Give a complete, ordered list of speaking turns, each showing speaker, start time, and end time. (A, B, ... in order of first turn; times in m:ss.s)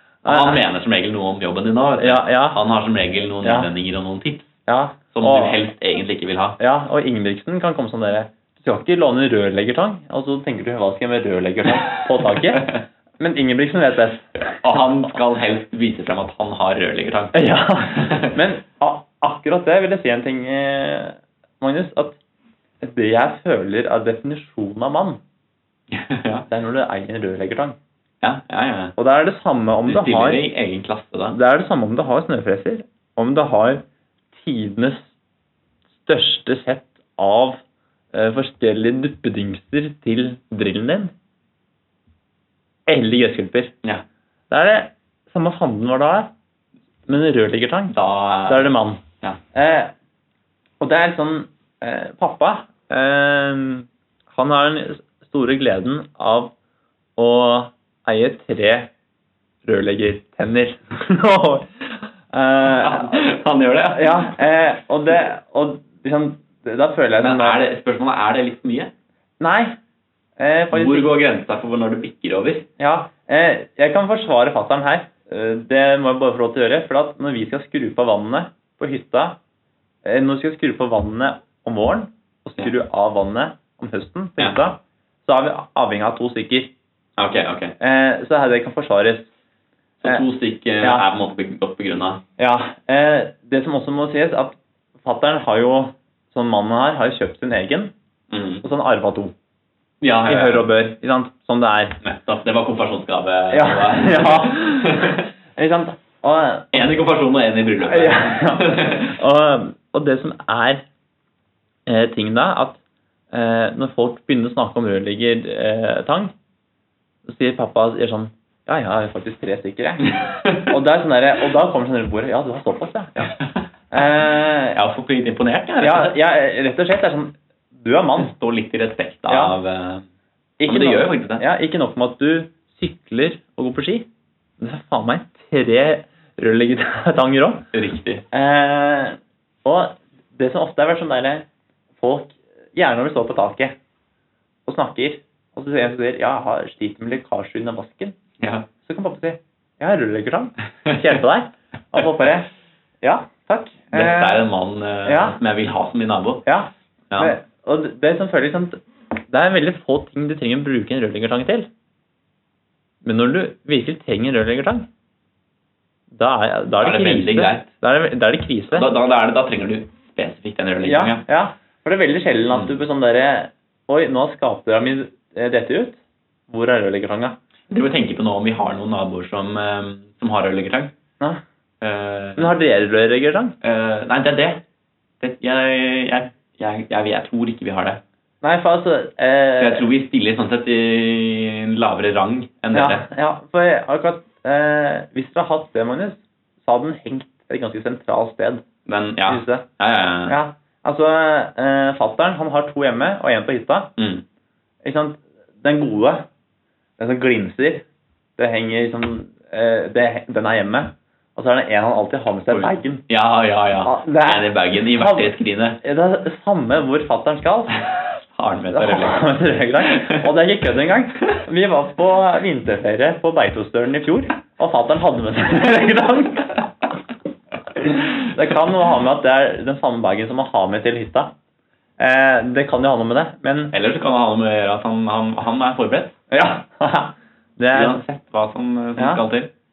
0:00.2-0:00.6 A
0:00.2-0:04.6 B
0:02.0-0:02.6 A
0:03.4-0:03.7 A
0:04.7-0:05.6 A
0:05.1-0:06.6 B
0:06.6-0:14.6 A
0:12.2-0:12.8 B
0:14.6-0:18.3 B
0:17.3-0:22.2 A
0:22.8-0:25.2 A
0:25.9-0:26.5 B
0:26.5-0:27.8 A
0:28.2-0:29.0 B
0:29.0-0:30.4 A
0:29.9-0:31.4 B
0:31.3-0:33.8 A
0:34.4-0:35.1 A
0:36.0-0:37.6 A
0:38.1-0:41.1 A
0:42.9-0:43.7 A
0:44.5-0:46.3 A
0:47.1-0:48.0 A
0:47.9-0:49.4 B
0:48.5-0:49.0 A
0:49.5-0:49.9 A
0:50.8-0:56.5 A
0:57.2-0:58.9 A
0:59.6-1:03.3 A
1:02.8-1:04.4 B
1:03.9-1:07.6 A
1:07.2-1:08.9 B
1:09.4-1:09.8 A
1:10.4-1:11.1 A
1:10.7-1:12.7 B
1:12.8-1:19.4 A
1:20.0-1:26.7 A
1:27.2-1:27.8 B
1:27.8-1:29.3 A
1:30.0-1:32.2 B
1:30.8-1:31.1 A
1:32.4-1:37.9 A
1:38.3-1:38.6 B
1:38.6-1:39.3 A
1:40.0-1:40.7 B
1:40.3-1:42.0 A
1:42.0-1:45.3 B
1:43.5-1:46.9 A
1:46.7-1:49.2 B
1:47.8-1:50.8 A
1:51.9-1:52.8 A
1:53.3-1:56.3 A
1:57.3-2:03.4 A
2:03.9-2:04.8 A
2:04.7-2:06.1 B
2:05.8-2:08.3 A
2:08.2-2:10.0 B
2:09.3-2:09.6 A
2:10.6-2:14.1 A
2:10.7-2:11.4 B
2:14.6-2:17.7 A
2:17.7-2:18.2 B
2:18.3-2:21.5 A
2:22.0-2:23.8 A
2:24.7-2:28.2 A
2:28.4-2:28.7 B
2:28.8-2:32.5 A
2:33.0-2:34.4 A
2:33.9-2:36.4 B
2:35.0-2:35.4 A
2:36.4-2:41.7 A
2:43.0-2:44.9 A
2:46.1-2:48.9 A
2:46.8-2:47.7 B
2:48.7-2:51.2 B
2:50.8-2:56.0 A
2:56.5-2:57.4 A
2:57.7-3:00.9 B
3:01.8-3:02.6 B
3:02.4-3:03.5 A
3:03.6-3:04.6 B
3:05.2-3:08.0 B
3:08.4-3:09.9 A
3:09.6-3:13.1 B
3:12.7-3:18.6 A
3:18.9-3:20.4 B
3:19.3-3:19.6 A
3:20.3-3:23.9 A
3:24.0-3:24.2 B
3:24.8-3:26.3 A
3:27.0-3:27.8 A
3:28.4-3:33.0 A
3:32.5-3:35.8 B
3:33.8-3:35.3 A
3:35.8-3:37.8 A
3:38.3-3:39.3 B
3:38.7-3:46.7 A
3:39.8-3:40.3 B
3:47.8-3:51.3 A
3:52.0-3:53.7 A
3:53.7-3:56.2 B
3:56.3-3:58.0 A
3:57.7-3:59.5 B
3:59.0-3:59.2 A